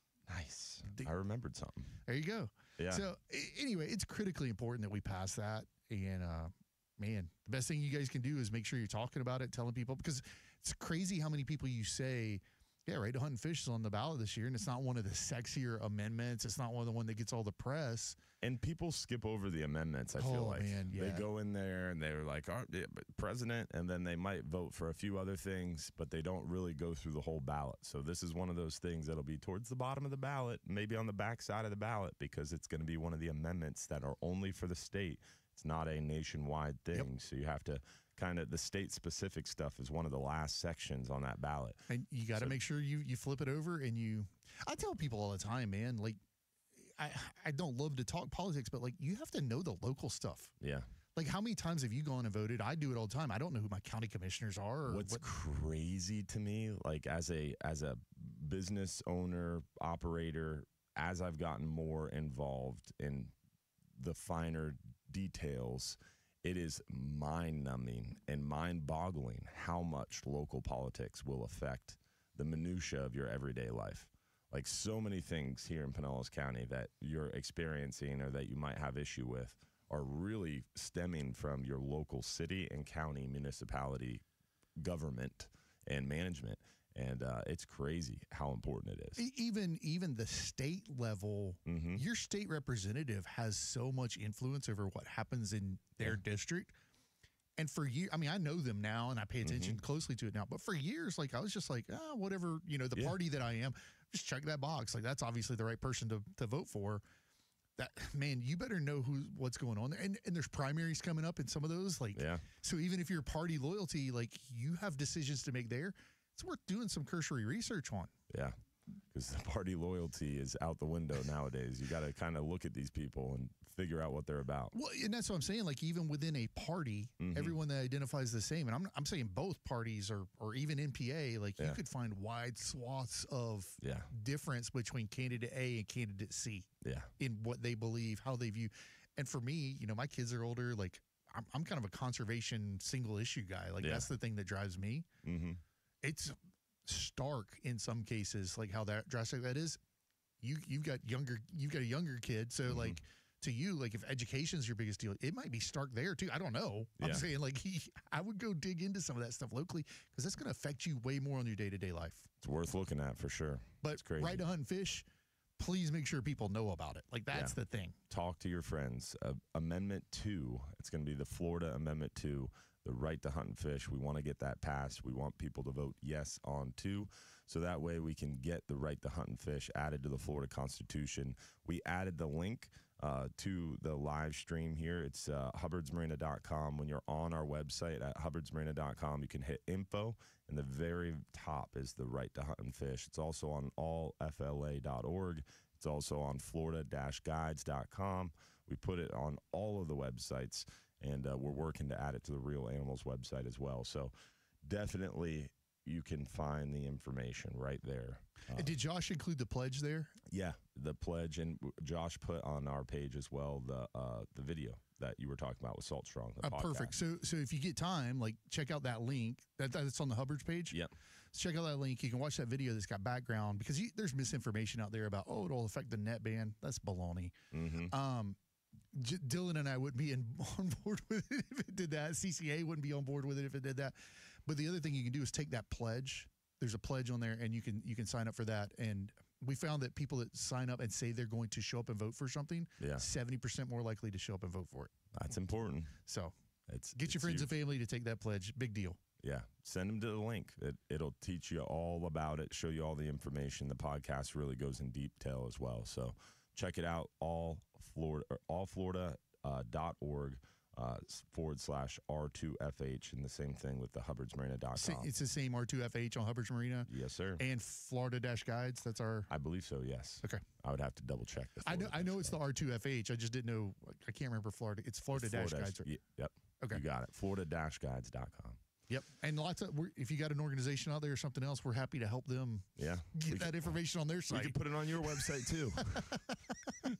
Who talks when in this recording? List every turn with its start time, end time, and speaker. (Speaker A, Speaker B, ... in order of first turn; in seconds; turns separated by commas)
Speaker A: 0.3-2.0, Speaker B: 0.8-1.1, Speaker B: 2.1-18.2, Speaker A: 2.8-3.0, Speaker A: 18.4-42.6, Speaker B: 20.2-21.3, Speaker B: 41.9-46.2, Speaker B: 46.8-50.5, Speaker A: 50.6-50.9, Speaker B: 51.1-55.2, Speaker A: 54.9-63.3, Speaker A: 64.0-84.2, Speaker A: 84.8-89.2, Speaker B: 89.2-96.7, Speaker A: 91.7-92.0, Speaker B: 97.6-107.0, Speaker A: 99.4-99.8, Speaker B: 107.8-118.1, Speaker A: 112.1-112.4, Speaker A: 118.3-118.6, Speaker A: 119.1-124.7, Speaker B: 124.7-136.7, Speaker A: 127.2-127.5, Speaker A: 133.8-134.1, Speaker A: 136.8-137.1, Speaker B: 137.2-145.1, Speaker A: 143.8-144.1, Speaker A: 145.2-145.6, Speaker B: 146.0-146.3, Speaker B: 146.8-149.8, Speaker B: 150.4-162.3, Speaker A: 152.7-153.0, Speaker A: 157.0-157.3, Speaker A: 162.4-164.4, Speaker B: 163.8-165.1, Speaker B: 165.6-168.0, Speaker A: 167.3-167.6, Speaker A: 168.1-208.8, Speaker B: 208.5-210.2, Speaker A: 210.3-216.9, Speaker B: 216.4-220.8, Speaker B: 221.3-227.3, Speaker A: 227.5-227.9, Speaker B: 227.8-228.4, Speaker B: 228.9-244.9, Speaker A: 242.8-243.1, Speaker A: 245.1-246.0, Speaker B: 246.1-246.3, Speaker A: 246.7-247.5, Speaker B: 246.9-249.0, Speaker A: 249.2-265.1, Speaker B: 264.7-269.3, Speaker A: 266.9-267.4, Speaker A: 269.3-272.4, Speaker B: 271.6-275.9, Speaker A: 275.1-278.6, Speaker B: 278.9-285.3, Speaker A: 282.8-283.7, Speaker A: 284.3-286.2, Speaker B: 285.9-286.4